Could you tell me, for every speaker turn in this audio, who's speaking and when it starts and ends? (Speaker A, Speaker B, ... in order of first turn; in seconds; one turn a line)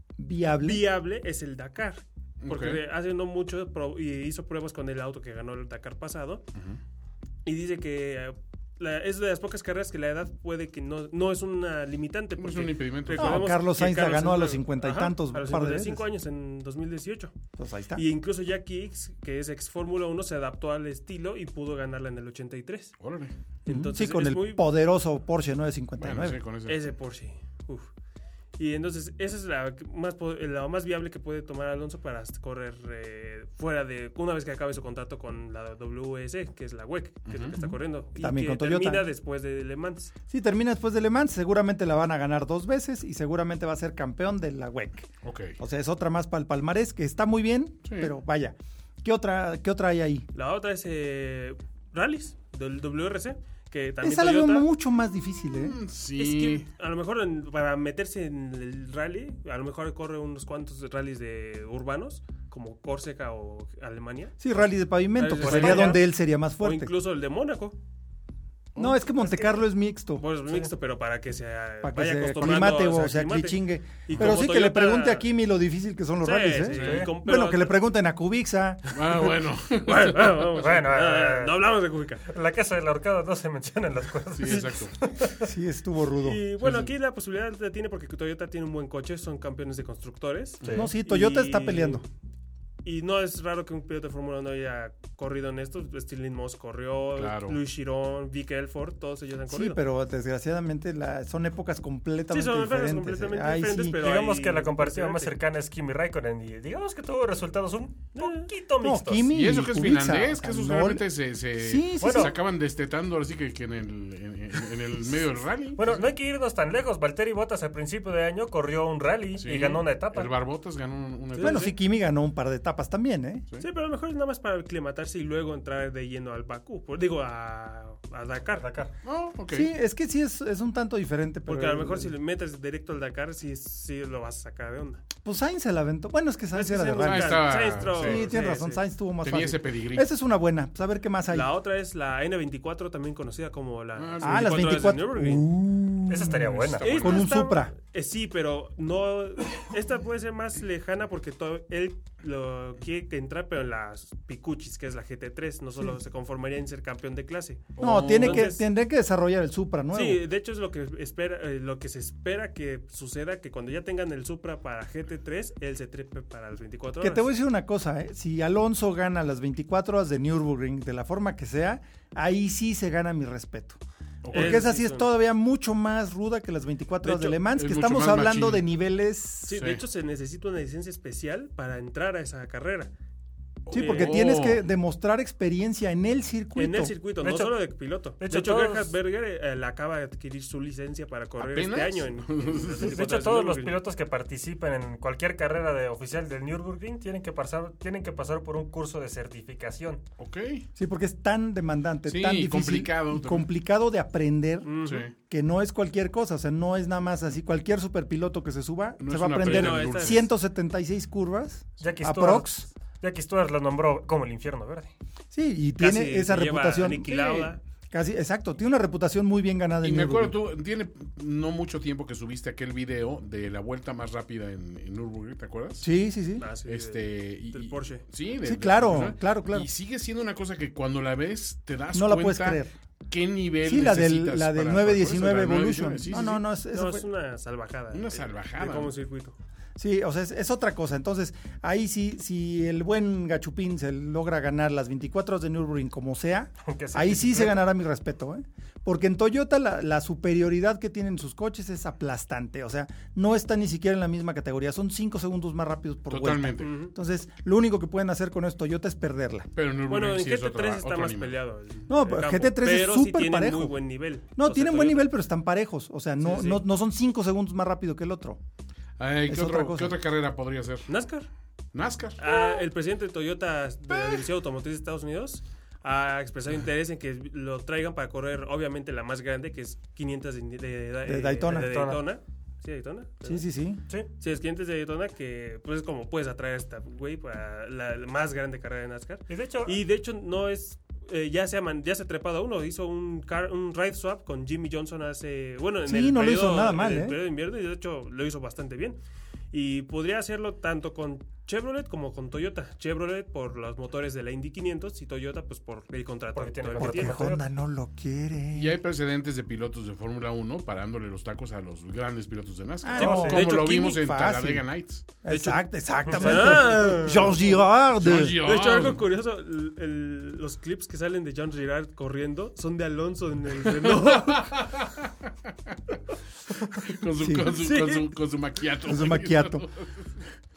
Speaker A: 0.2-0.8
Speaker B: 0.6-6.4
Speaker C: 2.4-2.8
Speaker B: 7.4-17.3
Speaker C: 12.4-13.5
Speaker A: 13.2-16.1
Speaker A: 17.6-18.0
Speaker B: 17.9-22.9
Speaker C: 23.0-23.3
Speaker B: 23.6-24.6
Speaker A: 23.7-26.4
Speaker C: 26.0-26.8
Speaker B: 26.7-27.9
Speaker B: 28.6-40.1
Speaker C: 37.3-37.7
Speaker A: 38.2-39.1
Speaker A: 40.3-50.3
Speaker C: 45.2-45.6
Speaker C: 47.8-48.1
Speaker B: 50.3-54.7
Speaker A: 54.0-55.8
Speaker C: 55.6-56.6
Speaker B: 56.2-64.4
Speaker A: 64.4-66.9
Speaker B: 65.2-67.8
Speaker D: 65.4-66.0
Speaker C: 68.8-69.0
Speaker A: 68.8-70.2
Speaker D: 69.2-69.6
Speaker B: 70.2-75.2
Speaker A: 71.8-78.8
Speaker B: 76.2-77.8
Speaker D: 76.7-77.1
Speaker C: 78.9-80.4
Speaker B: 79.8-82.2
Speaker D: 80.5-81.6
Speaker D: 82.2-85.5
Speaker C: 84.3-84.9
Speaker A: 85.4-86.4
Speaker B: 86.2-92.0
Speaker C: 86.6-86.9
Speaker C: 90.6-90.9
Speaker A: 90.7-92.0
Speaker B: 92.8-99.8
Speaker C: 97.2-97.6
Speaker A: 99.5-104.0
Speaker B: 102.3-105.3
Speaker D: 104.0-109.2
Speaker B: 108.1-108.5
Speaker A: 108.8-111.0
Speaker C: 109.3-116.0
Speaker A: 111.6-112.3
Speaker D: 112.0-112.3
Speaker D: 115.8-120.3
Speaker C: 119.4-121.7
Speaker B: 121.3-121.7
Speaker A: 121.4-123.5
Speaker B: 123.6-128.7
Speaker D: 128.6-128.9
Speaker C: 129.0-129.7
Speaker A: 129.5-132.1
Speaker B: 131.4-135.0
Speaker A: 135.2-141.5
Speaker B: 136.5-138.8
Speaker C: 137.0-138.4
Speaker C: 139.2-140.1
Speaker B: 141.3-145.4
Speaker C: 144.0-144.6
Speaker A: 144.2-147.7
Speaker D: 146.1-147.2
Speaker C: 146.6-147.0
Speaker B: 146.8-158.7
Speaker C: 157.8-158.5
Speaker A: 157.8-160.2
Speaker B: 159.9-167.3
Speaker A: 167.0-173.8
Speaker C: 174.2-174.7
Speaker B: 174.3-175.1
Speaker A: 174.3-179.6
Speaker B: 177.0-177.4
Speaker C: 177.5-178.6
Speaker B: 179.4-182.9
Speaker C: 179.5-179.8
Speaker C: 183.7-184.6
Speaker A: 183.7-186.9
Speaker B: 183.7-184.3
Speaker B: 186.6-193.8
Speaker D: 187.2-188.9
Speaker C: 191.4-193.0
Speaker D: 192.8-200.0
Speaker C: 200.2-200.7
Speaker A: 200.8-212.6
Speaker C: 202.1-203.5
Speaker B: 204.6-205.1
Speaker C: 204.8-205.1
Speaker C: 209.0-210.3
Speaker B: 209.4-210.2
Speaker D: 211.8-214.9
Speaker A: 215.3-220.3
Speaker B: 215.8-217.6
Speaker C: 219.8-225.9
Speaker A: 225.8-226.5
Speaker B: 226.4-228.0
Speaker C: 226.7-236.4
Speaker A: 228.4-229.7
Speaker A: 231.9-232.7
Speaker A: 233.6-237.0
Speaker B: 236.7-239.3
Speaker C: 237.9-238.9
Speaker A: 239.8-259.5
Speaker D: 246.6-247.6
Speaker C: 256.1-256.7
Speaker B: 256.6-256.9
Speaker C: 259.5-261.4
Speaker B: 259.9-265.1
Speaker A: 261.9-268.4
Speaker B: 266.2-266.6
Speaker C: 269.0-270.9
Speaker A: 269.3-270.0
Speaker B: 270.9-271.3
Speaker C: 271.7-272.5
Speaker B: 272.2-283.4
Speaker C: 273.9-274.2
Speaker A: 281.0-281.7
Speaker D: 281.5-282.0
Speaker A: 283.2-283.8
Speaker B: 284.2-299.0
Speaker D: 289.3-289.8
Speaker A: 295.9-297.2
Speaker B: 299.5-307.2
Speaker D: 306.4-307.4
Speaker A: 306.8-308.8
Speaker C: 308.5-315.0
Speaker A: 312.8-314.7
Speaker D: 312.9-313.4
Speaker A: 315.2-318.4
Speaker B: 315.3-317.6
Speaker C: 318.0-319.0
Speaker B: 318.4-324.6
Speaker C: 323.7-325.9
Speaker C: 326.7-330.0
Speaker A: 327.2-327.5
Speaker B: 327.4-328.1
Speaker A: 328.8-329.7